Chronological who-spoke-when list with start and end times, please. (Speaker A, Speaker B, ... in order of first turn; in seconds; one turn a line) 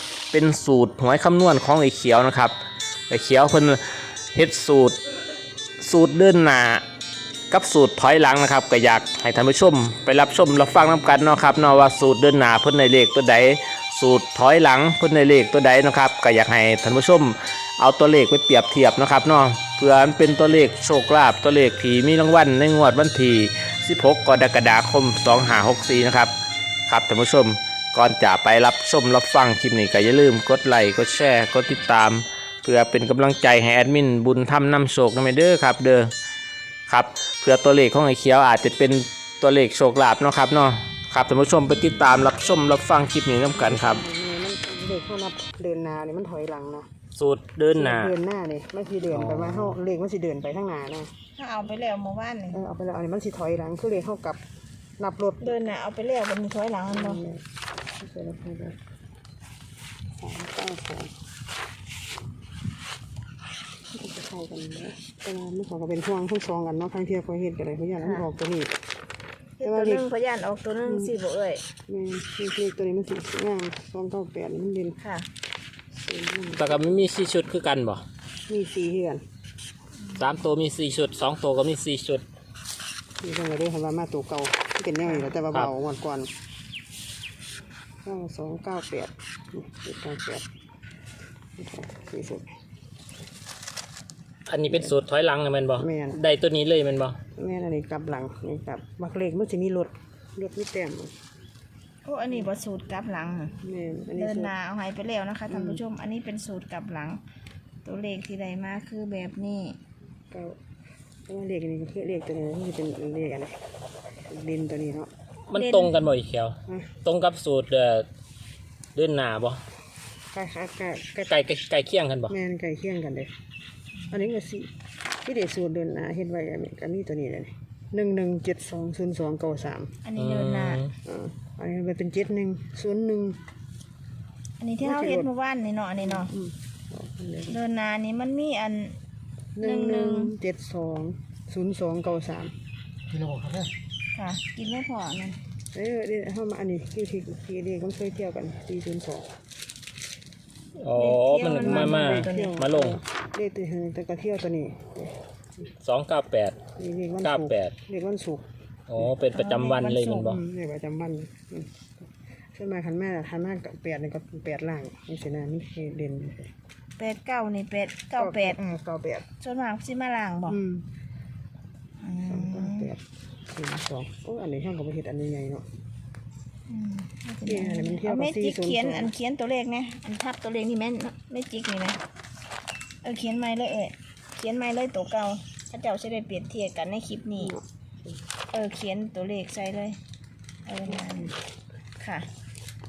Speaker A: 0.3-2.5
Speaker A: 3.1-3.8
Speaker A: 4.3-5.0
Speaker A: 5.8-6.8
Speaker A: 7.5-26.3
Speaker A: 26.9-36.1
Speaker A: 36.9-44.0
Speaker B: 43.5-46.9
Speaker A: 47.1-48.1
Speaker B: 47.7-51.1
Speaker A: 49.1-49.8
Speaker C: 51.3-52.6
Speaker B: 52.5-54.4
Speaker B: 55.0-55.6
Speaker C: 55.4-57.2
Speaker B: 56.9-57.4
Speaker B: 58.0-58.8
Speaker B: 60.2-61.1
Speaker B: 63.9-68.7
Speaker C: 68.0-68.2
Speaker C: 69.6-71.6
Speaker B: 69.6-70.1
Speaker B: 70.8-71.1
Speaker B: 71.9-75.0
Speaker C: 75.0-75.3
Speaker B: 76.0-77.0
Speaker A: 76.5-78.0
Speaker B: 78.5-79.2
Speaker A: 80.2-82.2
Speaker B: 83.2-86.3
Speaker B: 88.0-90.5
Speaker B: 91.6-92.5
Speaker A: 94.5-97.2
Speaker B: 95.8-96.2
Speaker B: 97.3-101.1
Speaker C: 102.0-103.6
Speaker B: 103.6-104.5
Speaker C: 104.1-107.2
Speaker B: 105.5-105.8
Speaker C: 107.8-109.8
Speaker B: 110.3-110.6
Speaker B: 111.2-113.5
Speaker B: 114.3-115.1
Speaker A: 115.5-118.0
Speaker C: 115.5-116.1
Speaker B: 116.7-116.9
Speaker A: 118.9-119.6
Speaker B: 120.3-121.3
Speaker A: 121.2-122.3
Speaker B: 122.3-123.3
Speaker B: 124.1-124.7
Speaker B: 125.2-130.0
Speaker C: 130.0-130.8
Speaker A: 130.2-130.9
Speaker B: 131.0-133.4
Speaker C: 134.6-136.3
Speaker B: 134.8-135.3
Speaker B: 136.0-137.6
Speaker C: 137.5-139.0
Speaker B: 139.6-142.5
Speaker C: 139.6-140.3
Speaker B: 143.1-143.7
Speaker C: 144.1-145.4
Speaker B: 145.7-149.3
Speaker A: 150.8-153.0
Speaker B: 150.9-155.2
Speaker C: 151.1-152.6
Speaker A: 155.8-156.6
Speaker B: 156.8-158.4
Speaker A: 157.2-157.7
Speaker A: 158.9-160.4
Speaker C: 159.3-160.3
Speaker B: 160.2-166.5
Speaker C: 167.0-168.6
Speaker B: 168.2-169.3
Speaker C: 169.4-170.6
Speaker B: 170.5-170.8
Speaker C: 172.0-172.9
Speaker B: 172.2-175.6
Speaker C: 176.7-182.0
Speaker B: 177.4-179.1
Speaker C: 183.0-187.5
Speaker B: 187.4-188.1
Speaker C: 188.5-190.0
Speaker C: 190.7-191.3
Speaker B: 190.9-191.3
Speaker C: 192.0-192.3